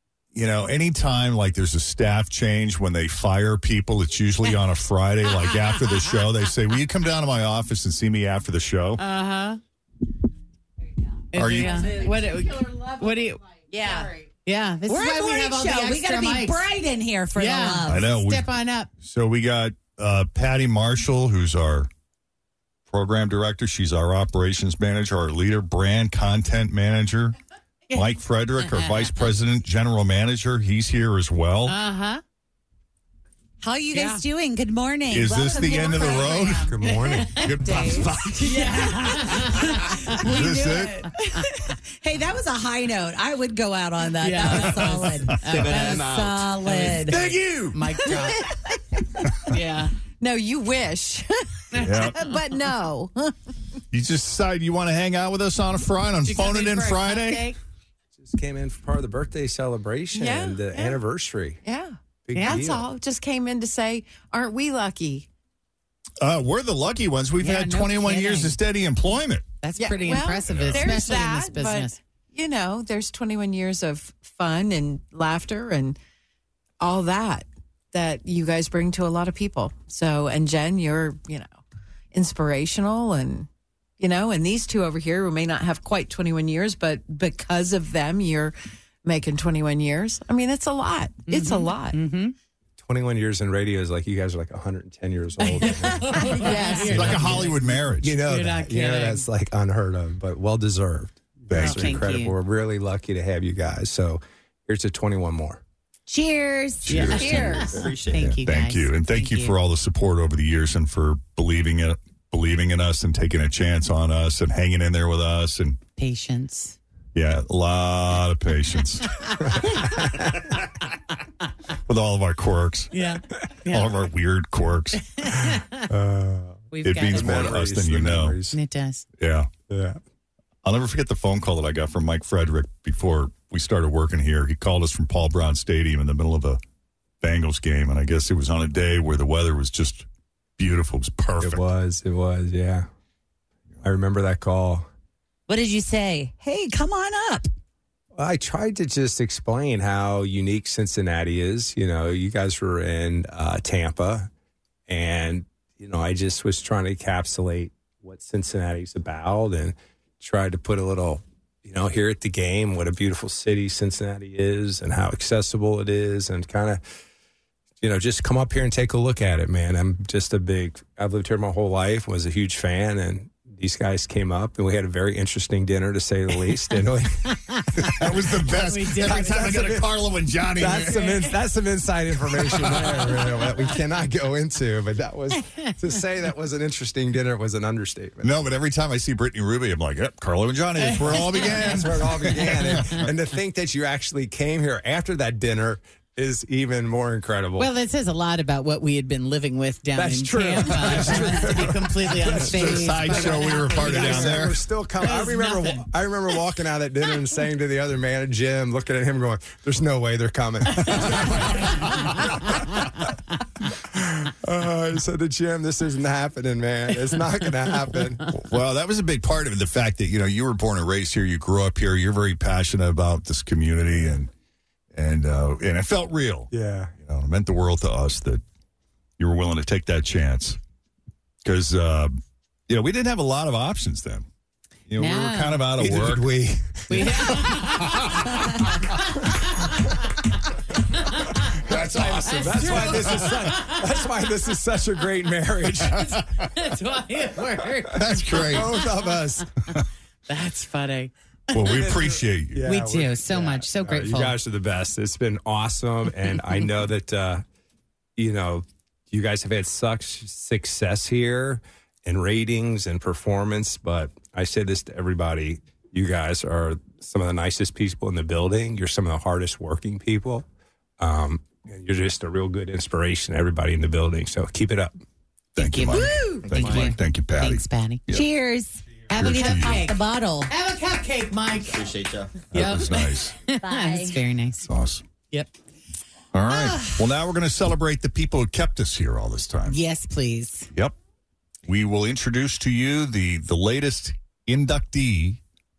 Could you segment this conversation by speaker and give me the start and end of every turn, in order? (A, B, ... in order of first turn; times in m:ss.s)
0:00.3-0:09.0 A
0:09.0-0:09.6 B
0:11.3-0:16.7 B
0:11.4-0:11.9 A
0:11.5-0:12.2 C
0:13.7-0:14.1 C
0:14.9-0:18.1 C
0:17.4-0:18.9 B
0:17.8-0:21.9 A
0:22.9-0:27.4 A
0:27.9-0:29.3 B
0:27.9-0:31.8 A
0:31.6-0:32.2 B
0:33.6-0:36.7 C
0:33.9-0:34.2 B
0:35.1-0:41.1 A
0:36.7-0:37.5 D
0:36.8-0:40.2 B
0:37.6-0:47.3 C
0:41.3-0:41.7 B
0:44.2-0:46.1 B
0:44.4-0:45.6 A
0:45.5-0:46.6 E
0:46.6-0:48.5 B
0:47.0-0:47.8 A
0:49.4-0:49.9 B
0:50.2-0:53.3 F
0:51.7-0:52.4 B
0:51.8-0:52.2 A
0:53.9-0:57.5 A
0:56.2-0:57.6 B
0:58.2-1:01.6 D
1:00.1-1:01.0 F
1:01.6-1:05.3 F
1:02.2-1:02.9 D
1:02.3-1:02.6 B
1:06.2-1:09.5 A
1:07.4-1:08.6 B
1:09.6-1:12.0 B
1:09.8-1:16.0 F
1:10.5-1:10.8 A
1:16.8-1:21.6 F
1:22.1-1:23.5 F
1:24.0-1:32.0 F
1:31.3-1:32.3 B
1:32.8-1:45.6 D
1:35.4-1:39.2 B
1:36.3-1:37.2 F
1:36.9-1:38.2 A
1:41.5-1:42.0 A
1:41.5-1:42.3 B
1:46.1-1:47.8 C
1:46.8-1:55.8 A
1:46.9-1:49.6 B
1:47.2-1:48.3 E
1:56.0-1:56.8 B
1:57.1-1:59.4 A
1:59.6-2:00.2 D
2:01.8-2:03.0 A
2:02.9-2:03.9 B
2:03.7-2:05.2 A
2:05.1-2:05.9 B
2:05.8-2:08.6 D
2:06.7-2:07.5 B
2:06.8-2:08.4 A
2:08.5-2:09.0 B
2:09.2-2:09.5 A
2:09.7-2:10.0 D
2:10.6-2:16.6 A
2:17.2-2:20.0 A
2:20.6-2:21.7 A
2:21.4-2:22.8 D
2:23.8-2:24.8 D
2:25.5-2:27.5 C
2:28.1-2:34.3 D
2:34.9-2:46.8 D
2:47.8-2:57.2 D
2:57.2-2:59.7 B
2:57.8-3:01.3 A
2:57.9-2:58.3 D
2:58.9-3:00.0 D
3:00.5-3:08.4 D
3:00.7-3:01.1 B
3:02.1-3:03.4 A
3:05.3-3:05.7 B
3:08.2-3:13.1 A
3:10.8-3:11.8 B
3:11.3-3:17.7 D
3:17.6-3:24.5 B
3:20.0-3:32.5 D
3:22.4-3:24.6 A
3:25.0-3:25.8 B
3:30.8-3:32.2 B
3:30.9-3:31.3 A
3:33.9-3:38.3 D
3:38.3-3:44.3 A
3:44.9-3:48.4 A
3:46.5-3:46.9 D
3:49.2-3:50.6 A
3:51.4-3:52.2 A
3:52.7-3:54.3 A
3:54.9-3:58.2 A
3:55.0-3:55.7 B
3:55.8-3:57.8 D
3:56.9-4:00.0 B
4:01.0-4:03.8 B
4:01.6-4:06.0 D
4:01.7-4:03.4 A
4:05.9-4:08.6 B
4:07.9-4:08.8 A
4:08.0-4:09.5 D
4:10.3-4:11.8 B
4:11.5-4:12.7 A
4:11.7-4:17.4 D
4:12.6-4:14.4 B
4:18.2-4:30.4 D
4:31.0-4:34.9 D
4:35.5-4:38.3 A
4:35.6-4:38.0 B
4:36.0-4:36.3 C
4:36.5-4:36.9 E
4:38.1-4:40.5 C
4:39.1-4:41.9 B
4:39.1-4:39.9 A
4:41.7-4:42.3 E
4:42.5-4:43.4 A
4:42.5-4:44.7 B
4:43.6-4:44.2 C
4:44.6-4:45.0 A
4:46.3-4:49.8 A
4:49.7-4:50.7 B
4:51.6-4:55.4 A